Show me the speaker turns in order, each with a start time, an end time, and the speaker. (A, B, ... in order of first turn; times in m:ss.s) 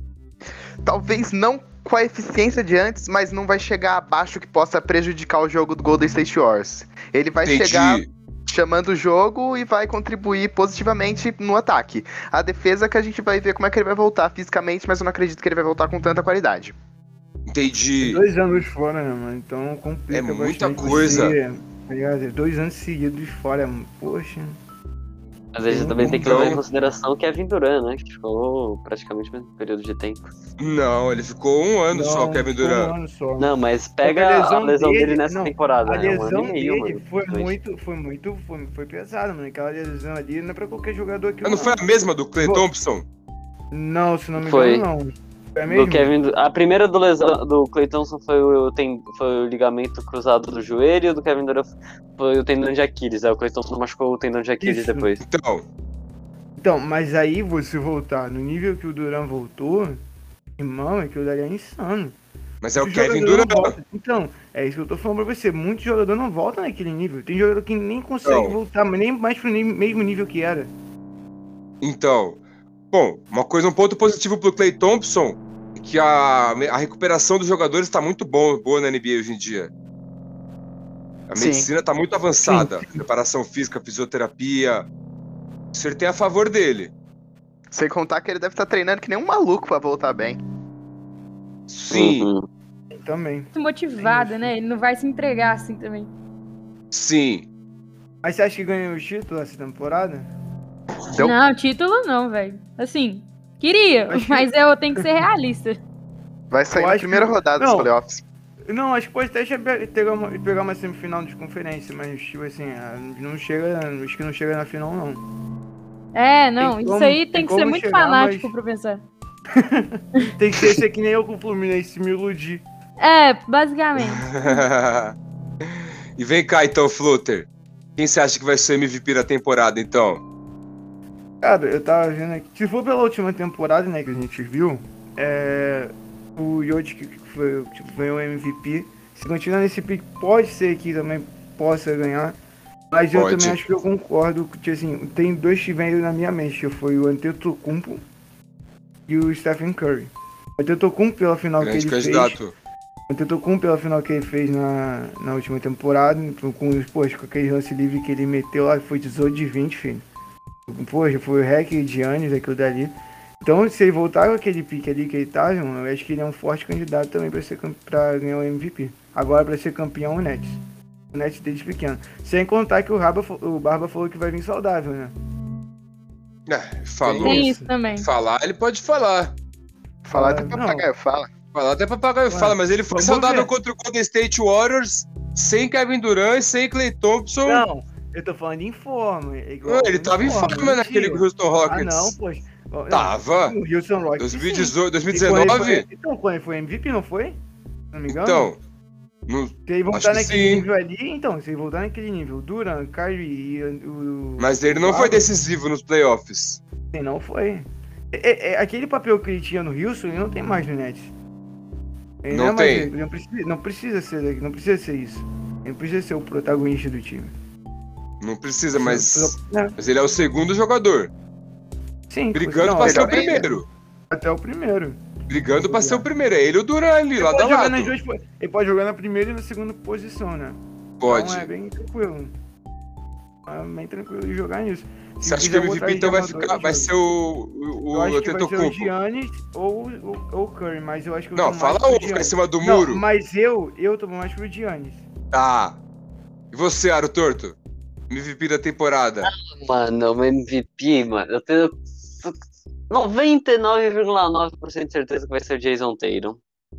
0:00.8-0:16.8 A
0:07.4-0:08.1 B
0:17.5-0:18.2 B
0:18.0-0:24.6 C
0:20.1-0:21.4 B
0:25.6-0:30.3 D
0:25.7-0:26.6 C
0:26.0-0:26.6 B
0:30.6-0:32.9 B
0:31.9-0:33.5 C
0:33.4-0:37.6 D
0:34.0-0:41.8 C
0:41.4-0:43.1 B
0:42.4-0:42.7 C
0:43.7-0:46.1 C
0:44.4-0:44.9 D
0:45.7-0:55.2 D
0:54.6-0:55.1 C
0:55.2-0:55.6 B
0:56.6-1:00.0 C
1:00.6-1:02.2 C
1:02.6-1:03.8 B
1:02.8-1:10.7 C
1:08.2-1:08.6 B
1:11.8-1:19.7 B
1:21.3-1:24.9 B
1:21.3-1:21.7 A
1:22.4-1:23.0 C
1:25.7-1:26.9 B
1:27.7-1:30.4 A
1:31.7-1:32.3 B
1:31.9-1:32.4 D
1:32.9-1:34.5 C
1:33.6-1:36.1 E
1:36.9-1:37.5 B
1:38.2-1:40.3 C
1:41.2-1:45.8 E
1:44.1-1:45.1 C
1:46.5-1:48.2 A
1:46.7-1:47.9 C
1:48.7-1:55.2 C
1:56.1-1:59.0 E
1:56.6-1:58.5 C
1:59.6-2:02.6 C
2:03.0-2:04.6 E
2:04.0-2:10.2 B
2:11.4-2:22.4 C
2:22.9-2:28.0 C
2:23.1-2:23.6 B
2:29.1-2:32.4 C
2:31.6-2:32.5 B
2:33.1-2:40.0 C
2:40.7-2:50.6 C
2:51.1-2:55.1 C
2:56.5-2:57.5 B
2:57.0-2:57.7 C
2:57.2-2:58.1 E
2:58.0-2:59.4 B
3:00.0-3:01.3 A
3:00.1-3:00.9 C
3:01.5-3:07.6 B
3:02.3-3:03.5 C
3:07.4-3:17.4 C
3:09.7-3:12.2 B
3:12.9-3:13.6 B
3:14.2-3:15.9 B
3:17.9-3:18.5 C
3:18.1-3:18.6 B
3:19.3-3:20.7 B
3:19.7-3:25.3 C
3:24.4-3:26.6 B
3:26.9-3:31.1 C
3:32.2-3:37.3 C
3:32.3-3:32.9 B
3:38.2-3:41.1 B
3:38.8-3:39.8 C
3:42.1-3:43.5 C
3:42.3-3:43.7 B
3:42.8-3:43.5 A
3:44.1-3:45.0 C
3:45.3-3:47.9 B
3:45.5-3:46.1 C
3:47.2-3:52.3 C
3:51.0-3:51.5 B
3:53.5-3:56.9 C
3:55.2-3:58.9 B
3:57.9-4:05.0 C
4:01.4-4:03.0 B
4:05.3-4:05.8 B
4:06.5-4:07.6 B
4:08.1-4:09.3 B
4:09.2-4:12.4 D
4:12.9-4:16.4 D